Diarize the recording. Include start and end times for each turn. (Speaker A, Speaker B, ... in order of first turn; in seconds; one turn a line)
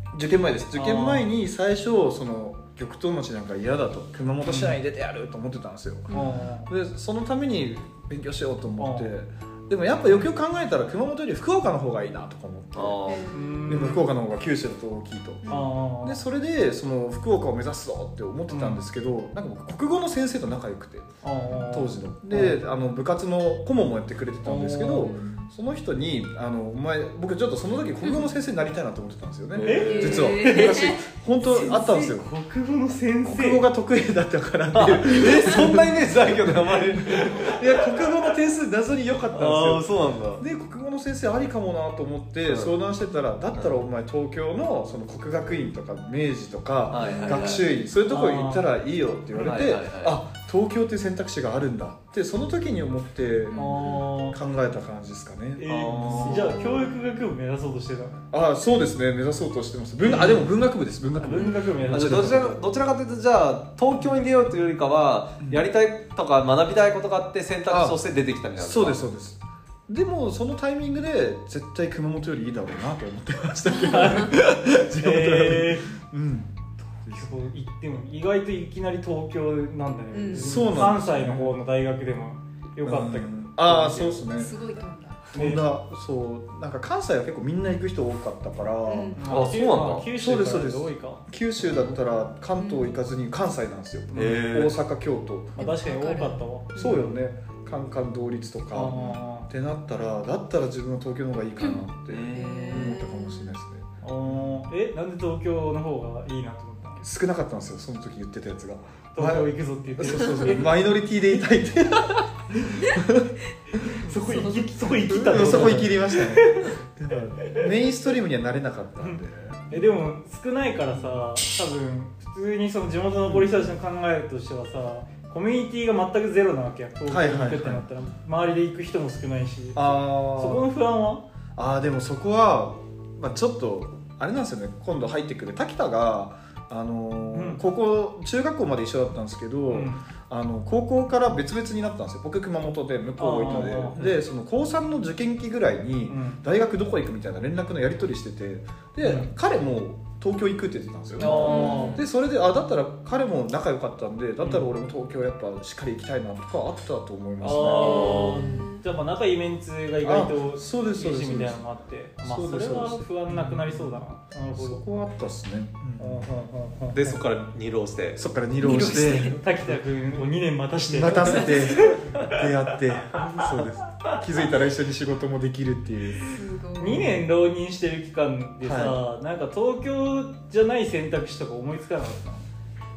Speaker A: 0.1-21.1
Speaker B: 0.7-1.3
Speaker B: 4.5-4.8
Speaker C: 6.1-6.5
Speaker B: 6.1-6.7
Speaker B: 8.8-9.1
Speaker D: 12.8-13.4
Speaker C: 13.0-14.0
Speaker B: 13.3-14.1
Speaker C: 15.4-15.8
Speaker B: 15.5-16.2
Speaker B: 18.5-18.8
Speaker B: 21.2-22.6
Speaker A: 21.6-32.3
Speaker B: 24.4-25.2
Speaker C: 25.0-25.5
Speaker D: 29.5-30.4
Speaker B: 29.6-30.8
Speaker C: 29.7-32.2
Speaker B: 32.1-33.6
Speaker A: 33.3-56.3
Speaker D: 34.7-37.9
Speaker D: 39.4-40.4
Speaker D: 42.5-42.7
Speaker D: 46.9-47.7
Speaker C: 47.0-47.5
Speaker B: 48.1-48.7
Speaker D: 49.4-50.2
Speaker C: 53.5-54.1
Speaker B: 53.5-54.4
Speaker B: 55.6-58.2
Speaker D: 55.7-56.5
Speaker C: 56.3-57.0
Speaker A: 58.3-62.6
Speaker B: 60.0-60.5
Speaker B: 61.2-62.5
Speaker D: 61.9-69.0
Speaker A: 65.4-65.7
Speaker A: 67.7-68.0
Speaker A: 68.6-76.5
Speaker C: 73.7-74.3
Speaker B: 73.8-74.5
Speaker B: 75.0-75.9
Speaker B: 77.1-84.2
Speaker C: 80.1-80.8
Speaker A: 80.3-81.6
Speaker A: 82.8-84.5
Speaker C: 84.4-85.3
Speaker A: 85.3-89.3
Speaker B: 85.3-85.7
Speaker C: 88.9-89.2
Speaker B: 89.2-91.2
Speaker D: 89.3-90.1
Speaker A: 90.1-95.6
Speaker C: 92.6-93.0
Speaker B: 94.1-94.5
Speaker D: 94.1-94.8
Speaker B: 95.6-97.2
Speaker C: 95.6-97.0
Speaker A: 96.8-104.6
Speaker B: 98.7-99.5
Speaker C: 98.9-99.2
Speaker C: 101.6-103.5
Speaker D: 102.1-103.0
Speaker B: 104.0-107.0
Speaker A: 107.0-114.0
Speaker B: 109.2-110.8
Speaker B: 113.9-116.8
Speaker C: 114.2-114.7
Speaker A: 114.8-119.7
Speaker D: 115.3-115.9
Speaker B: 117.4-117.7
Speaker B: 119.7-131.2
Speaker A: 121.0-121.2
Speaker A: 123.3-123.7
Speaker A: 127.1-127.9
Speaker A: 129.8-130.7
Speaker A: 131.6-158.3
Speaker B: 137.3-137.6
Speaker B: 139.7-140.0
Speaker B: 143.2-144.1
Speaker B: 146.1-146.4
Speaker B: 149.0-149.3
Speaker B: 151.2-152.0
Speaker D: 151.2-151.8
Speaker C: 151.3-152.1
Speaker B: 157.4-164.8
Speaker C: 157.7-158.8
Speaker D: 157.8-158.5
Speaker A: 160.0-161.7
Speaker A: 162.2-166.3
Speaker B: 166.0-167.2
Speaker D: 166.9-169.3
Speaker A: 168.2-169.7
Speaker C: 168.6-169.4
Speaker B: 169.3-172.4
Speaker A: 170.9-176.3
Speaker C: 176.3-177.2
Speaker B: 176.8-182.4
Speaker A: 178.6-179.0